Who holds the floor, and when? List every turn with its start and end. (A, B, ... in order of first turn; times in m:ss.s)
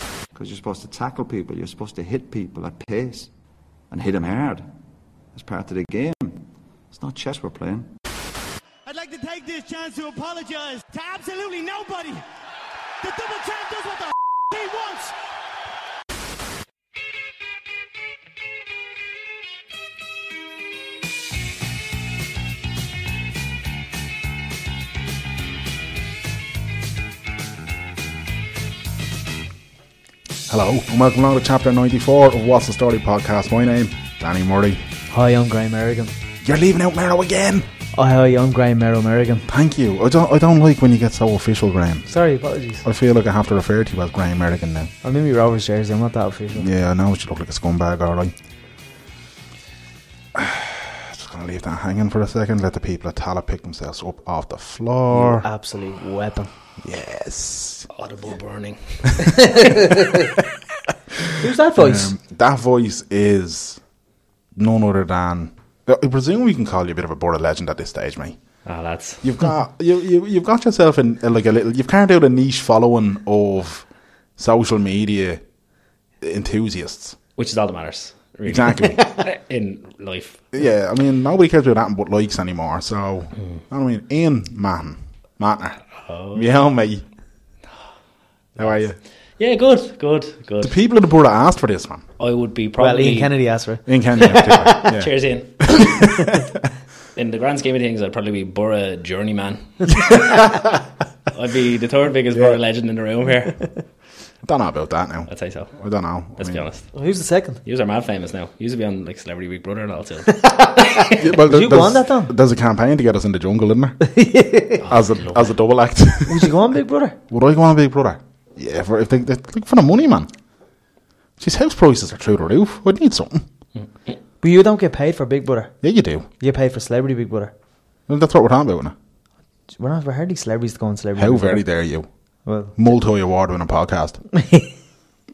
0:00.3-0:03.3 A
0:03.9-0:04.7 A
0:05.3-0:07.9 A
0:08.8-0:12.2 B
0:13.0-0:15.1 B
0:30.5-0:34.8 C
0:35.1-0:36.1 D
0:36.4-0:37.7 C
0:37.9-0:39.5 D
0:39.5-0:42.1 C
0:42.1-0:42.8 D
0:42.8-0:44.9 C
0:45.0-0:46.7 D
0:46.5-0:48.3 C
0:50.3-0:55.4 C
0:55.1-0:56.5 D
0:56.8-0:57.9 C
0:57.9-1:00.0 E
0:59.2-1:00.3 D
1:01.4-1:02.1 D
1:01.8-1:03.8 C
1:04.6-1:08.4 C
1:08.6-1:09.2 E
1:09.2-1:13.8 C
1:14.4-1:15.4 C
1:16.2-1:17.2 C
1:17.4-1:20.4 E
1:18.5-1:19.0 C
1:20.5-1:25.8 C
1:26.0-1:26.6 E
1:26.3-1:27.0 C
1:28.6-1:29.0 C
1:28.6-1:28.8 E
1:29.4-1:30.7 E
1:30.6-1:32.0 C
1:32.2-1:33.3 E
1:32.8-1:34.8 D
1:33.8-1:35.1 C
1:34.2-1:36.1 E
1:35.6-1:36.5 C
1:37.2-1:40.6 E
1:41.3-1:43.6 E
1:44.4-1:46.6 C
1:45.3-1:45.7 E
1:46.4-1:46.9 E
1:46.9-1:47.6 D
1:47.6-1:50.4 E
1:50.3-1:52.3 D
1:51.1-1:54.0 C
1:54.0-1:54.8 D
1:54.8-1:56.5 C
1:54.9-1:55.5 E
1:56.2-1:57.2 D
1:57.3-2:00.3 C
2:01.4-2:03.4 C
2:04.4-2:05.7 D
2:05.8-2:06.3 C
2:06.4-2:07.5 D
2:08.1-2:08.9 C
2:09.7-2:11.6 D
2:11.2-2:12.1 C
2:12.4-2:12.7 D
2:12.8-2:14.2 C
2:14.3-2:14.7 D